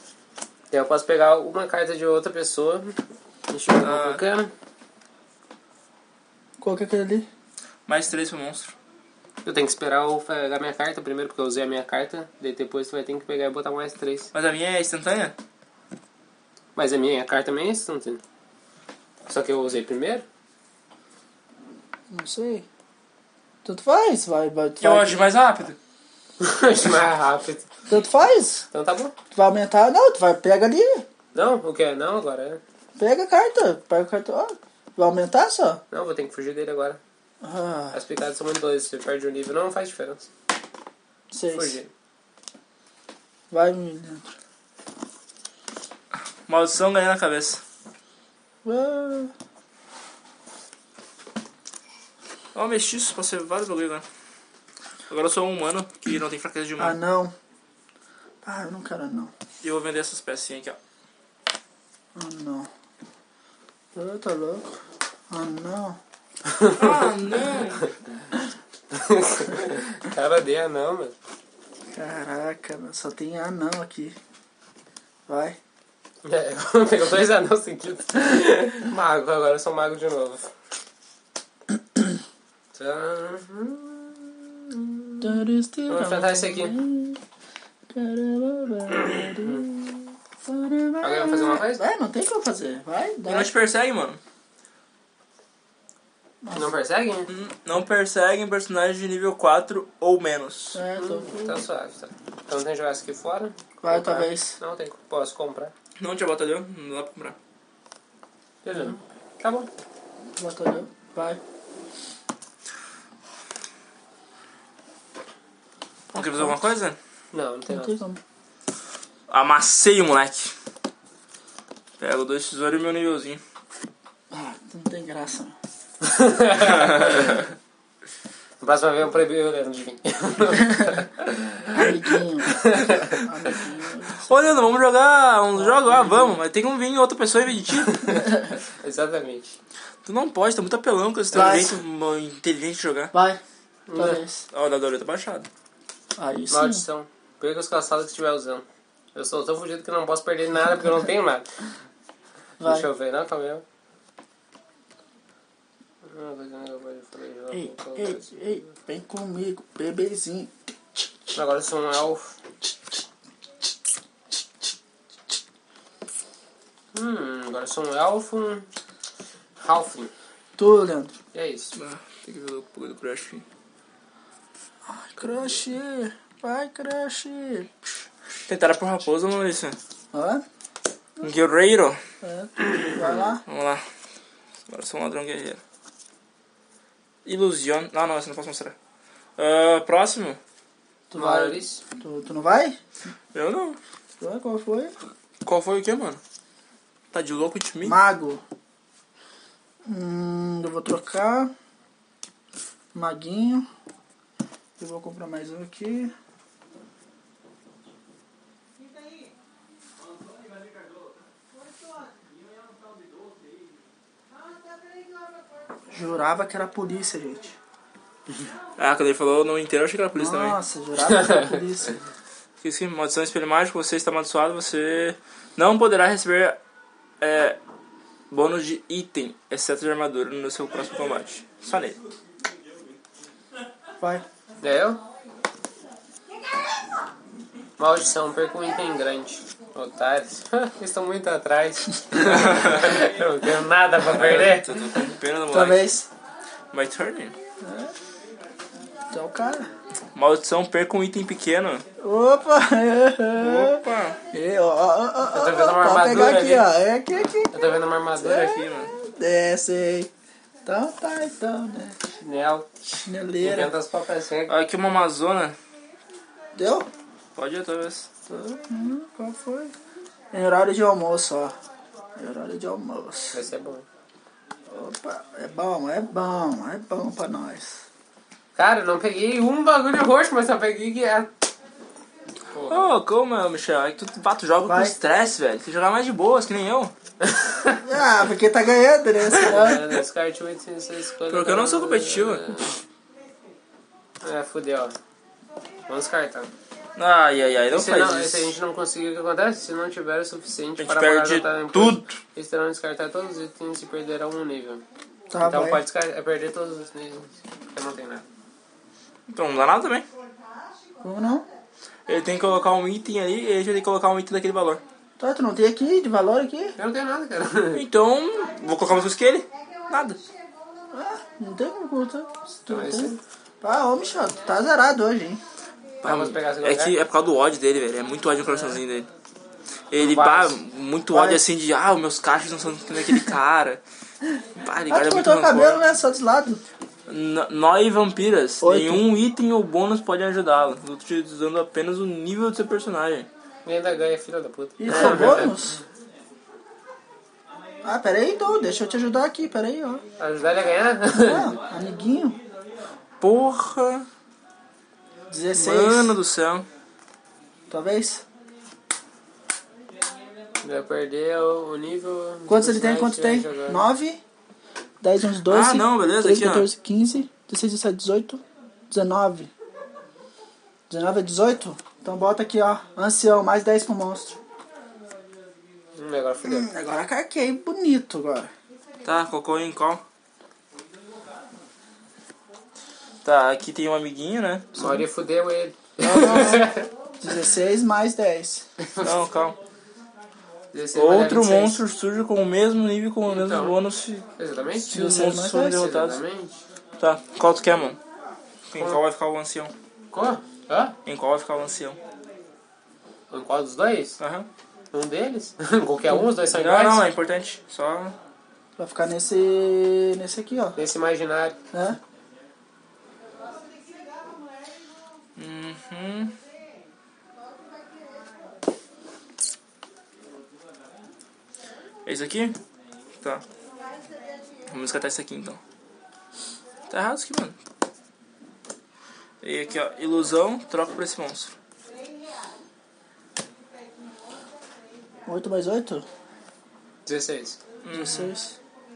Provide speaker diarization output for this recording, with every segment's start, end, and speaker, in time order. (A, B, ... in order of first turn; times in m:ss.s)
0:00.7-0:04.5 A
0:03.8-0:04.2 B
0:06.6-0:07.3 C
0:07.9-0:08.7 B
0:09.4-0:14.3 A
0:14.3-0:15.4 B
0:16.8-0:18.2 A
0:19.3-0:20.2 A
0:22.1-0:22.7 C
0:23.6-0:25.2 C
0:24.8-0:25.8 B
0:26.4-0:27.7 A
0:27.9-0:28.6 C
0:28.7-0:29.1 A
0:29.3-0:31.1 C
0:31.3-0:32.6 A
0:33.0-0:35.8 C
0:35.9-0:37.0 A
0:37.4-0:38.0 C
0:37.9-0:40.3 A
0:41.3-0:41.8 C
0:41.5-0:41.9 A
0:43.5-0:44.3 C
0:46.5-0:47.6 B
0:48.6-0:49.3 C
0:52.6-0:54.0 B
0:55.1-0:57.0 B
0:56.8-0:57.3 C
0:58.4-0:59.3 C
0:59.6-1:00.8 B
1:02.2-1:02.7 C
1:04.0-1:04.8 C
1:05.3-1:06.0 C
1:06.5-1:07.1 A
1:06.8-1:07.9 B
1:08.9-1:11.1 A
1:11.9-1:14.2 C
1:15.3-1:15.6 C
1:16.2-1:20.5 A
1:22.7-1:25.3 A
1:25.2-1:27.2 C
1:25.9-1:26.8 A
1:27.9-1:33.5 C
1:31.0-1:31.8 A
1:33.2-1:34.2 B
1:36.5-1:37.3 A
1:37.3-1:40.8 B
1:40.7-1:41.6 C
1:41.0-1:45.7 A
1:43.8-1:44.6 C
1:46.0-1:47.4 B
1:48.6-1:49.7 A
1:50.4-1:51.4 C
1:56.1-1:57.0 B
1:56.2-1:56.6 C
1:57.3-1:57.9 A
1:57.7-1:58.2 C
1:59.3-2:00.5 B
2:02.0-2:03.4 B
2:04.3-2:05.6 C
2:06.0-2:07.5 A
2:08.6-2:11.1 A
2:11.7-2:14.4 C
2:12.5-2:13.3 A
2:14.3-2:18.3 B
2:15.7-2:16.4 A
2:18.0-2:18.3 A
2:18.8-2:19.6 A
2:20.0-2:23.1 B
2:21.3-2:21.8 C
2:23.1-2:23.4 C
2:23.9-2:24.2 A
2:23.9-2:24.4 C
2:24.5-2:25.5 B
2:26.2-2:26.8 C
2:26.5-2:31.5 A
2:32.6-2:32.9 C
2:32.6-2:33.6 A
2:36.0-2:38.3 A
2:37.5-2:41.3 C
2:41.3-2:42.4 A
2:42.7-2:43.0 C
2:46.9-2:48.7 A
2:49.6-2:50.1 A
2:50.6-2:51.2 C
2:51.3-2:51.7 A
2:51.8-2:53.4 B
2:54.9-2:57.7 C
2:58.5-2:59.8 B
3:00.1-3:00.4 C
3:01.2-3:02.0 B
3:02.2-3:03.4 C
3:03.4-3:03.8 B
3:04.7-3:05.6 B
3:07.2-3:08.8 B
3:09.4-3:10.4 B
3:11.1-3:12.8 C
3:11.2-3:11.8 A
3:13.3-3:13.8 B
3:14.2-3:14.9 C
3:15.4-3:16.2 B
3:17.1-3:18.0 B
3:17.8-3:18.4 C
3:19.8-3:21.5 C
3:22.9-3:23.7 C
3:24.8-3:26.1 C
3:35.9-3:37.6 C
3:38.8-3:40.6 B
3:40.1-3:42.0 C
3:41.1-3:41.6 A
3:42.6-3:46.6 B
3:47.2-3:47.6 B
3:48.3-3:52.0 B
3:54.6-3:55.0 A
3:57.8-4:04.8 A
4:02.3-4:02.9 B
4:04.1-4:05.9 B
4:05.5-4:06.1 C
4:06.7-4:07.4 B
4:07.6-4:07.9 C
4:09.1-4:09.7 C
4:10.2-4:11.8 B
4:12.0-4:13.8 C
4:13.3-4:14.2 B
4:14.3-4:17.5 C
4:15.3-4:16.7 A
4:17.4-4:18.6 A
4:18.2-4:20.1 C
4:18.3-4:18.9 B
4:20.7-4:22.0 C
4:22.2-4:22.7 A
4:22.8-4:23.7 C
4:23.4-4:24.5 A
4:24.5-4:25.6 B
4:26.6-4:26.9 C
4:27.4-4:28.1 B
4:28.3-4:29.7 C
4:30.3-4:31.6 C
4:32.2-4:33.4 C
4:33.3-4:33.9 A
4:34.7-4:37.8 C
4:38.6-4:41.3 A
4:42.5-4:42.8 A
4:42.7-4:46.9 B
4:44.7-4:45.0 C
4:47.2-4:47.8 A
4:47.8-4:50.0 C
4:49.4-4:52.8 A
4:51.3-4:52.6 B
4:54.2-4:55.0 A
4:55.9-4:56.5 A
4:57.0-4:58.5 B
4:57.7-5:04.8 A
5:00.8-5:02.2 B
5:05.3-5:05.8 C
5:05.4-5:08.2 A
5:09.3-5:10.1 B
5:11.0-5:11.5 C
5:12.1-5:14.8 B
5:15.2-5:16.8 C
5:16.8-5:17.8 A
5:17.7-5:20.2 B
5:20.9-5:25.4 C
5:22.7-5:23.2 A
5:26.0-5:27.0 A
5:26.0-5:29.1 B
5:29.9-5:33.8 B
5:30.0-5:30.6 A
5:31.1-5:31.4 C
5:34.6-5:35.8 B
5:34.9-5:36.6 C
5:37.1-5:43.3 B
5:38.6-5:39.1 C
5:43.6-5:45.7 A
5:44.8-5:45.8 C
5:47.8-5:50.0 C
5:50.2-5:51.5 A
5:51.2-5:52.4 C
5:53.2-5:54.1 B
5:55.3-5:56.2 C
5:55.5-5:56.7 B
5:57.7-5:58.2 C
6:00.6-6:03.8 A
6:02.5-6:04.2 C
6:05.0-6:09.5 C
6:05.5-6:06.7 B
6:10.9-6:14.4 C
6:16.0-6:16.7 A
6:16.4-6:18.5 C
6:19.0-6:20.0 B
6:23.2-6:24.7 B
6:24.8-6:26.9 A
6:26.0-6:28.6 C
6:28.8-6:29.1 A
6:29.0-6:29.6 B
6:30.7-6:31.8 A
6:30.9-6:34.3 B
6:33.3-6:33.8 A
6:34.4-6:36.6 A
6:34.9-6:35.9 C
6:34.9-6:36.2 B
6:37.0-6:38.0 B
6:38.7-6:39.7 B
6:40.1-6:41.0 A
6:41.1-6:42.0 B
6:43.3-6:44.2 A
6:44.2-6:44.5 B
6:44.9-6:47.1 A
6:46.5-6:48.2 B
6:48.8-6:50.8 C
6:50.8-6:51.6 A
6:51.7-6:52.0 C
6:55.4-6:56.3 B
7:02.0-7:02.6 B
7:04.7-7:05.6 B
7:06.9-7:07.6 B
7:09.4-7:11.5 B
7:15.3-7:16.1 C
7:17.1-7:17.6 A
7:17.8-7:18.3 B
7:17.9-7:18.6 C